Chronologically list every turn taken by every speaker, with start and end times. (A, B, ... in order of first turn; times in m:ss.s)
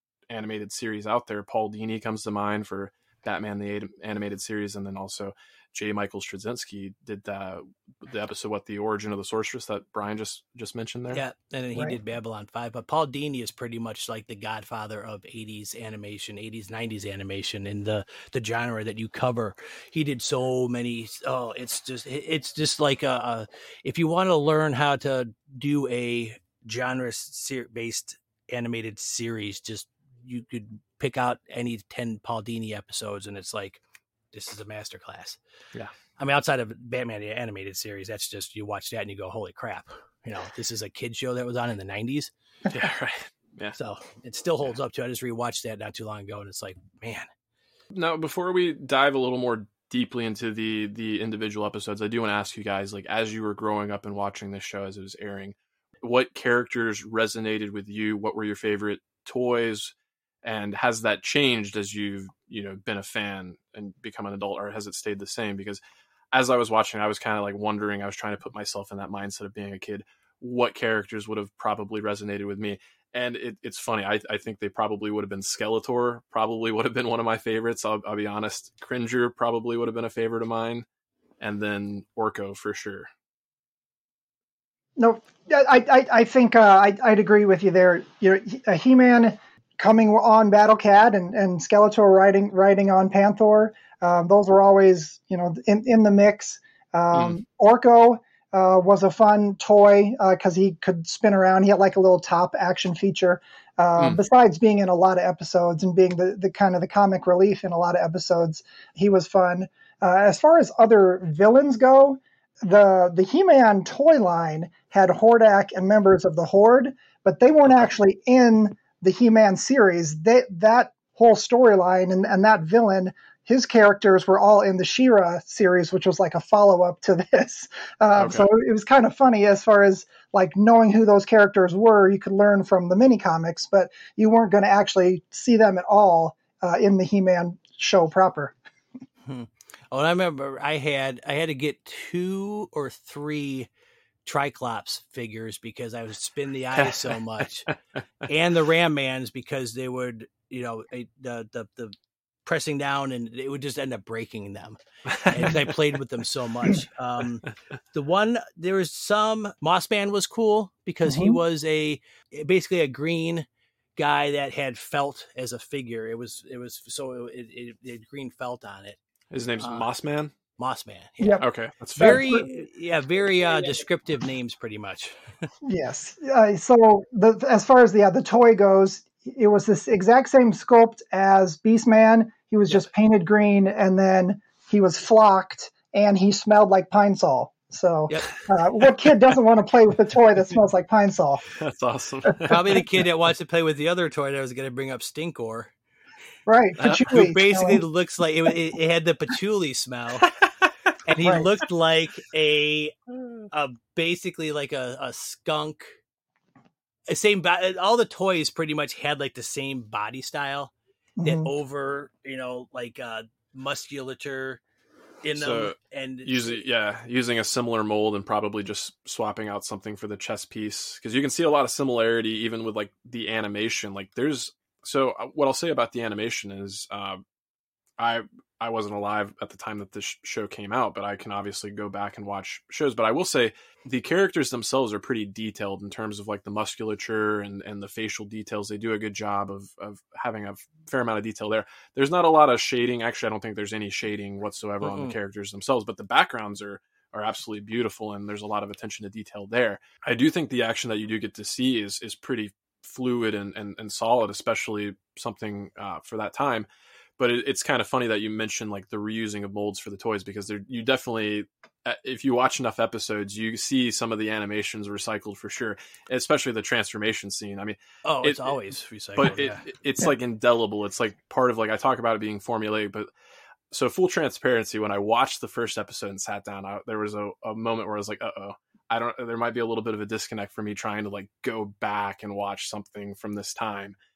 0:00.3-0:11.2 A
0:11.1-0:33.8 B
0:34.3-0:35.4 B
0:36.2-0:42.3 B
0:42.7-0:43.8 A
0:43.8-0:47.3 B
0:47.9-1:05.8 A
1:06.3-1:20.8 A
1:21.4-1:23.1 A
1:25.0-2:18.5 C
1:37.1-1:37.4 A
1:44.0-1:44.2 A
2:08.2-2:08.5 A
2:19.2-2:23.7 B
2:24.2-2:27.7 B
2:26.8-2:27.4 A
2:28.2-2:31.9 B
2:32.4-2:43.4 B
2:35.2-2:35.5 A
2:41.0-2:41.4 C
2:44.0-2:49.0 B
2:49.3-2:50.3 A
2:49.6-2:49.8 B
2:50.6-2:51.4 B
2:51.2-2:51.4 C
2:51.4-2:52.3 A
2:52.0-2:55.5 B
2:52.0-2:52.5 C
2:55.6-3:11.4 C
3:11.6-3:12.8 A
3:12.5-3:15.7 B
3:16.5-3:17.8 C
3:16.8-3:20.2 B
3:20.4-3:20.7 A
3:21.0-3:22.9 B
3:23.5-3:26.0 B
3:27.1-3:34.6 B
3:31.2-3:31.5 C
3:35.2-3:36.6 B
3:35.3-3:47.2 A
3:48.0-4:16.7 A
4:04.8-4:05.2 B
4:17.2-4:28.6 A
4:28.0-4:29.6 B
4:29.1-4:33.1 A
4:33.7-4:44.0 A